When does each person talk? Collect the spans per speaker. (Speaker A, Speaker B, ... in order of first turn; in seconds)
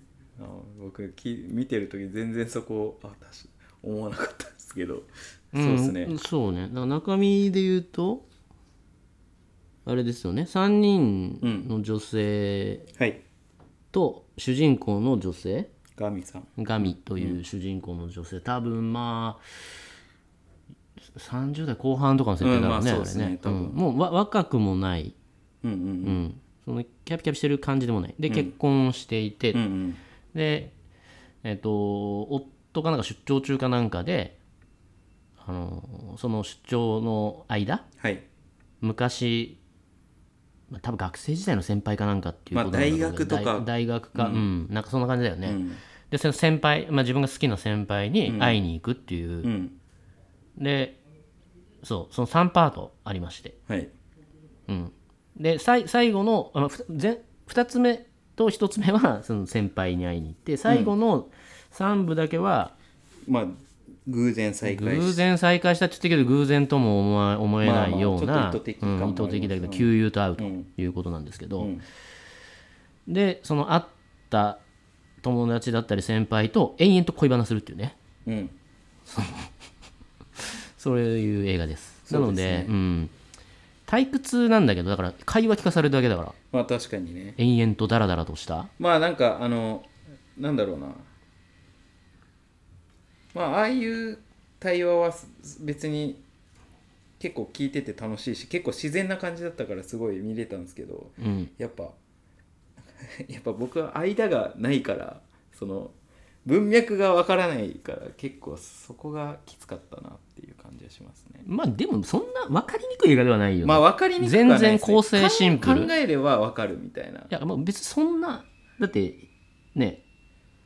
Speaker A: 0.4-6.2, 11.4-11.7, 12.9-13.2, 16.0-16.5, 22.4-23.8, 25.6-26.2, 28.3-28.5, 29.5-30.0, 38.0-38.2, 42.5-44.5, 45.5-45.8, 48.3-48.6, 49.4-49.8, 53.7-53.9, 60.7-60.9, 63.3-65.3, 67.6-70.7, 71.6-71.8, 78.3-78.6, 82.1-82.7, 86.5-87.4, 88.8-91.1, 93.3-96.2, 97.2-102.0, 102.8-105.9, 106.5-111.5, 113.6-117.3
Speaker B: 5.5-8.3, 9.9-12.9, 13.9-15.7, 16.6-19.4, 21.1-25.1, 26.0-29.6, 30.3-30.7, 31.4-34.4, 35.4-37.9, 38.8-39.6, 40.7-49.5, 50.6-51.0, 51.8-53.6, 54.7-62.8, 64.6-71.7, 73.1-74.6, 75.2-78.0, 79.1-79.5, 80.4-83.1, 83.9-86.4, 87.4-88.7, 101.2-101.5, 111.5-115.9, 117.3-120.0